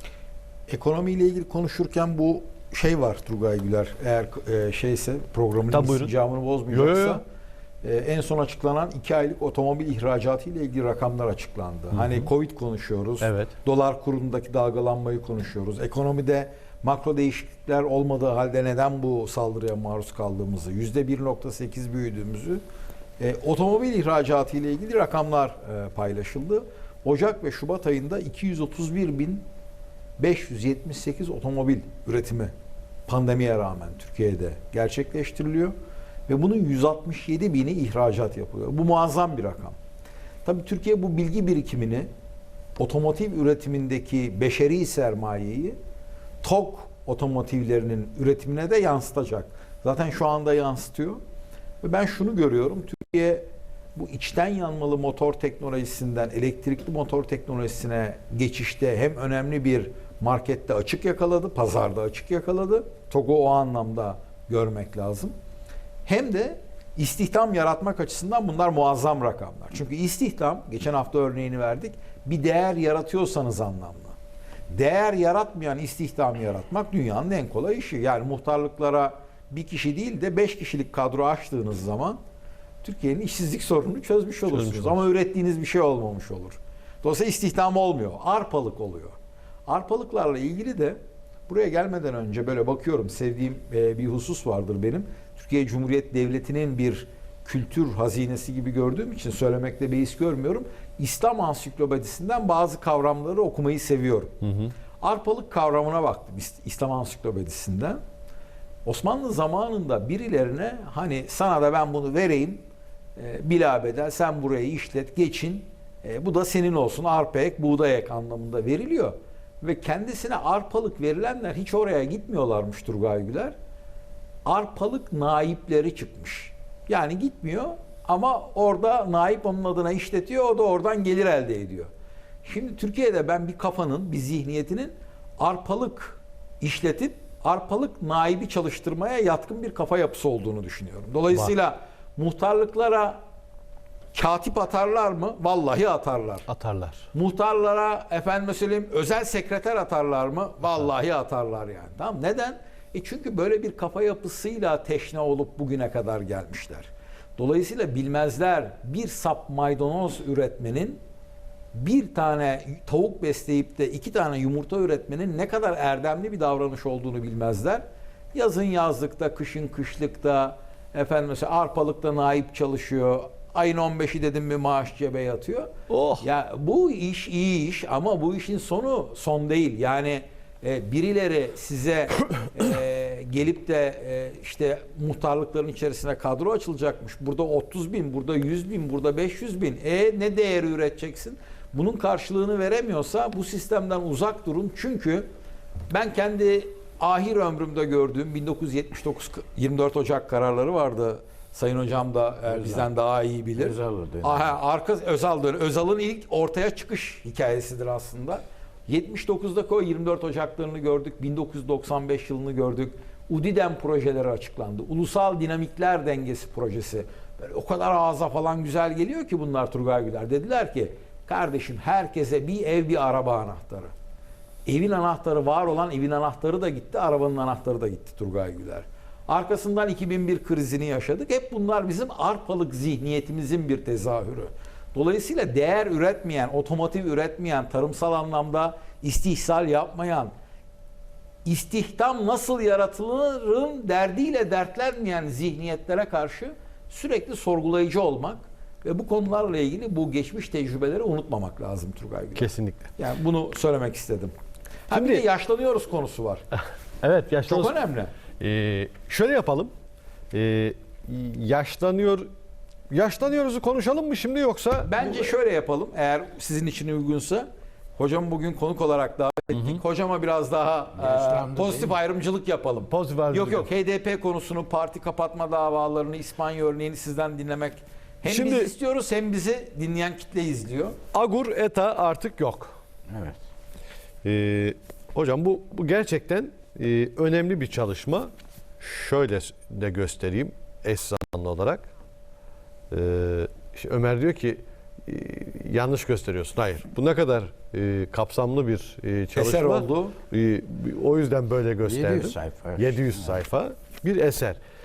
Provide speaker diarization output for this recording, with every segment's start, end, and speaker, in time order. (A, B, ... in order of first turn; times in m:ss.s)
0:00.7-0:07.2 A
0:05.7-0:06.1 B
0:06.7-0:07.2 B
0:07.8-0:22.6 A
0:12.0-0:12.2 B
0:13.2-0:13.5 B
0:23.2-0:29.4 A
0:30.2-0:32.5 A
0:33.1-0:35.8 A
0:36.3-0:39.8 A
0:40.4-0:42.1 A
0:42.8-0:45.8 A
0:46.4-0:51.2 A
0:51.8-1:05.4 A
1:06.1-1:14.2 A
1:14.7-1:22.2 A
1:22.8-1:29.2 A
1:24.5-1:25.0 B
1:29.7-1:44.4 A
1:45.0-1:48.0 A
1:48.8-1:52.6 A
1:53.2-2:03.6 A
2:04.4-2:11.9 A
2:12.4-2:23.2 A
2:24.1-2:26.5 A
2:26.5-2:27.1 B
2:27.1-2:41.0 A
2:41.7-3:15.3 A
2:55.9-2:56.2 B
3:15.9-3:43.9 A
3:22.5-3:22.9 C
3:23.5-3:24.5 C
3:44.7-4:00.3 A
4:01.4-4:14.4 A
4:12.4-4:12.9 B
4:14.9-4:16.4 A
4:14.9-4:15.2 B
4:17.0-4:17.8 B
4:17.5-4:18.1 A
4:18.4-4:19.7 B
4:20.3-4:22.3 B
4:22.9-4:25.3 B
4:24.8-4:41.0 A
4:31.0-4:32.0 C
4:32.9-4:33.7 B
4:38.3-4:38.7 B
4:41.1-4:42.8 B
4:43.1-4:43.4 C
4:44.2-4:51.8 B
4:52.9-5:04.6 B
4:59.4-5:00.2 A
5:01.8-5:03.3 C